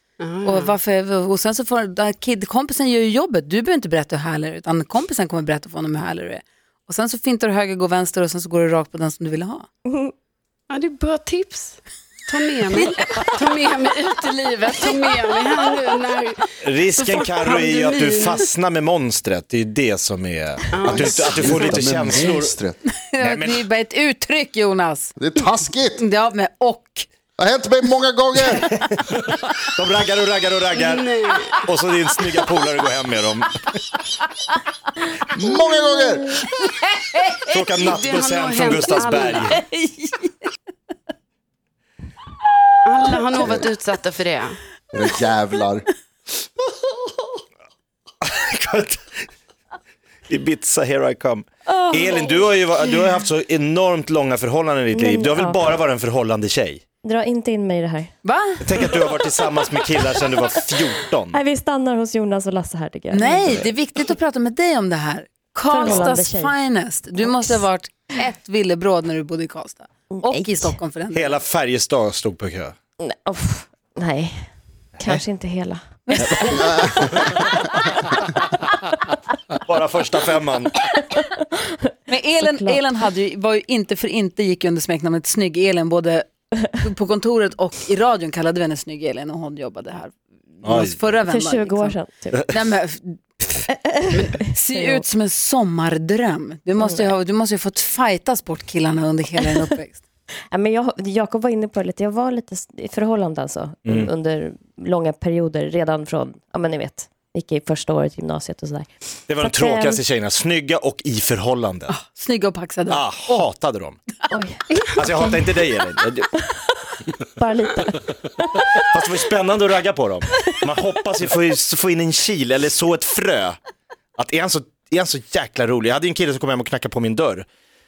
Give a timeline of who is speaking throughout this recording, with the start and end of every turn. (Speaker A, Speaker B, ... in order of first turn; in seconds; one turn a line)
Speaker A: 0.2-0.8
Speaker B: 0.4-9.7
Speaker A: 10.7-18.4
Speaker B: 12.7-13.3
Speaker C: 16.6-22.6
Speaker A: 20.7-21.7
Speaker D: 20.9-22.8
Speaker B: 23.1-25.2
Speaker C: 23.2-23.6
Speaker D: 25.2-26.0
Speaker B: 25.9-27.1
Speaker D: 27.4-28.7
Speaker C: 28.5-33.8
Speaker A: 30.7-31.6
Speaker D: 35.3-36.5
Speaker B: 36.7-37.5
Speaker C: 37.4-39.6
Speaker A: 37.8-39.6
Speaker B: 38.9-40.3
Speaker A: 42.8-44.6
Speaker D: 43.4-43.7
Speaker D: 44.9-45.9
Speaker C: 48.2-49.2
Speaker C: 50.3-56.8
Speaker E: 51.9-52.4
Speaker E: 54.9-55.8
Speaker E: 57.0-58.1
Speaker B: 58.2-58.9
Speaker C: 58.6-61.4
Speaker E: 59.4-60.8
Speaker E: 61.3-63.7
Speaker B: 63.1-71.4
Speaker E: 65.7-66.6
Speaker E: 70.1-70.8
Speaker C: 71.1-72.8
Speaker E: 73.0-76.7
Speaker B: 76.1-76.9
Speaker C: 76.8-77.2
Speaker C: 79.6-80.8
Speaker B: 82.1-93.7
Speaker E: 82.4-82.8
Speaker C: 90.6-91.2
Speaker E: 91.2-92.5
Speaker E: 93.7-95.0
Speaker B: 94.3-100.0
Speaker E: 96.8-97.1
Speaker E: 100.5-110.0
Speaker C: 103.8-104.1
Speaker C: 109.3-112.0
Speaker B: 111.9-113.5
Speaker C: 112.9-114.0
Speaker E: 114.3-115.5
Speaker C: 114.9-116.3
Speaker E: 117.2-118.9
Speaker C: 118.8-123.6
Speaker C: 124.2-127.5